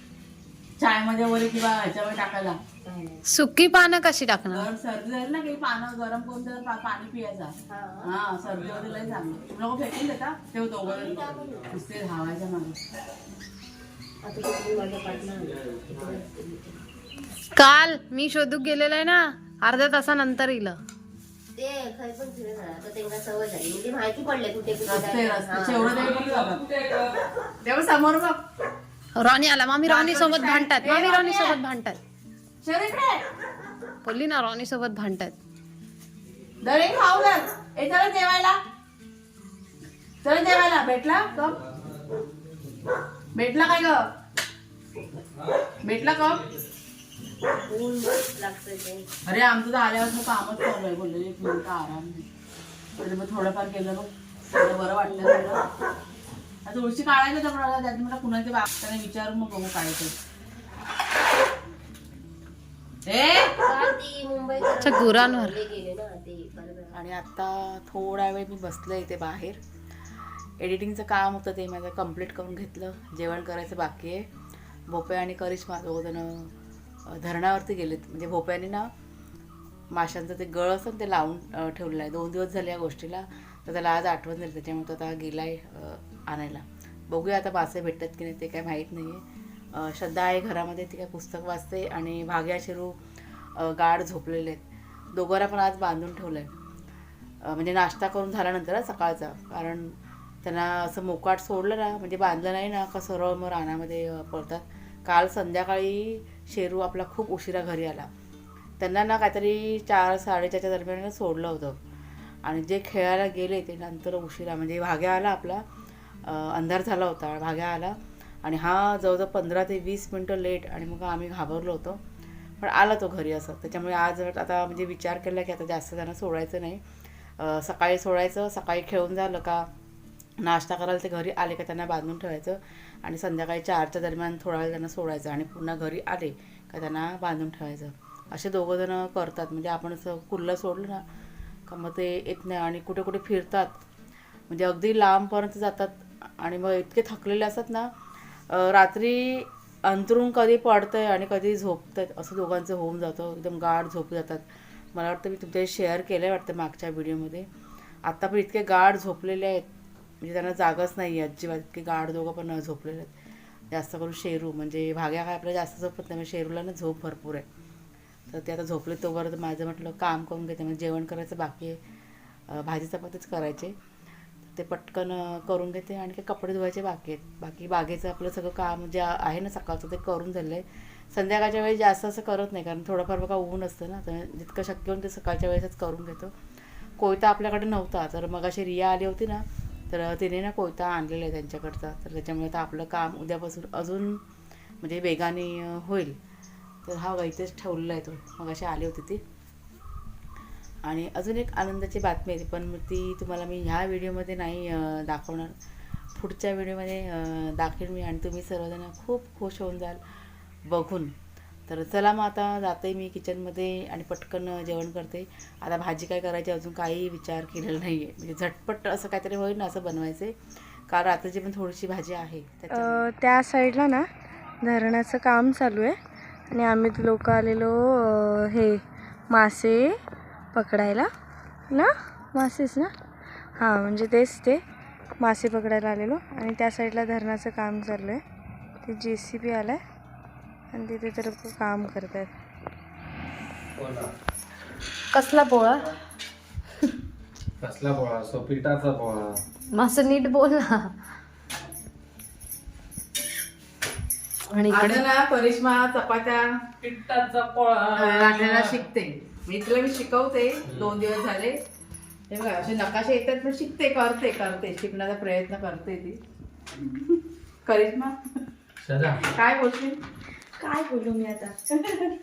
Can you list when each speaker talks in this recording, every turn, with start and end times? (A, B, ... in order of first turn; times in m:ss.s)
0:00.8-0:02.6 A
0:02.8-0:03.2 B
0:03.2-0:04.7 C
0:04.5-0:12.8 A
0:07.7-0:08.1 B
0:08.5-0:09.4 D
0:10.8-0:11.8 B
0:11.2-0:11.7 D
0:14.2-0:16.8 B
0:15.5-0:16.2 D
0:17.5-0:20.8 C
0:21.6-0:25.9 B
0:24.9-0:26.6 A
0:25.8-0:27.2 D
0:27.6-0:28.4 A
0:29.2-0:32.0 C
0:29.9-0:31.3 A
0:30.8-0:31.6 B
0:32.6-0:33.2 A
0:34.0-0:35.4 C
0:36.6-0:38.6 A
0:40.2-0:41.6 A
0:41.4-0:42.8 D
0:43.4-0:44.0 A
0:45.3-0:46.6 D
0:45.8-0:46.5 A
0:47.6-0:49.1 B
0:49.3-0:52.3 A
0:53.0-0:55.6 A
0:56.6-1:00.1 A
1:03.1-1:03.6 A
1:03.6-1:07.0 B
1:04.8-1:05.6 C
1:06.9-1:09.6 A
1:10.6-1:14.2 A
1:14.9-1:16.5 A
1:17.1-1:18.9 A
1:19.9-1:29.2 A
1:29.7-1:33.0 A
1:33.6-1:34.6 A
1:35.1-1:36.5 A
1:37.4-1:48.1 A
1:48.8-1:51.8 A
1:52.4-1:55.6 A
1:56.2-2:02.0 A
2:02.6-2:06.8 A
2:07.4-2:09.7 A
2:10.4-2:21.0 A
2:21.7-2:23.8 A
2:24.5-2:27.9 A
2:28.5-2:37.5 A
2:38.0-2:39.7 A
2:40.2-2:43.1 A
2:43.7-2:47.4 A
2:48.3-2:51.8 A
2:52.5-2:53.8 A
2:54.6-3:06.3 A
3:07.0-3:14.2 A
3:14.8-3:16.2 A
3:16.9-3:19.2 A
3:20.9-3:25.5 A
3:26.2-3:30.0 A
3:30.7-3:31.1 A
3:31.7-3:40.4 A
3:40.9-3:43.0 A
3:42.7-3:44.1 E
3:44.6-3:46.0 E
3:46.5-3:50.0 E
3:50.5-3:51.1 E
3:51.7-3:52.9 E
3:53.6-3:54.6 E
3:55.2-3:58.2 E
3:58.8-3:59.8 E
4:00.7-4:02.3 E
4:03.8-4:04.1 D
4:05.1-4:05.9 C
4:07.6-4:09.4 D
4:09.7-4:10.9 C
4:14.5-4:15.0 C
4:14.7-4:16.5 A
4:16.8-4:18.8 D
4:18.0-4:21.6 A
4:20.7-4:21.0 D
4:22.3-4:26.2 A
4:26.9-4:28.2 A
4:28.8-4:29.2 D
4:29.2-4:30.0 A
4:30.6-4:31.6 E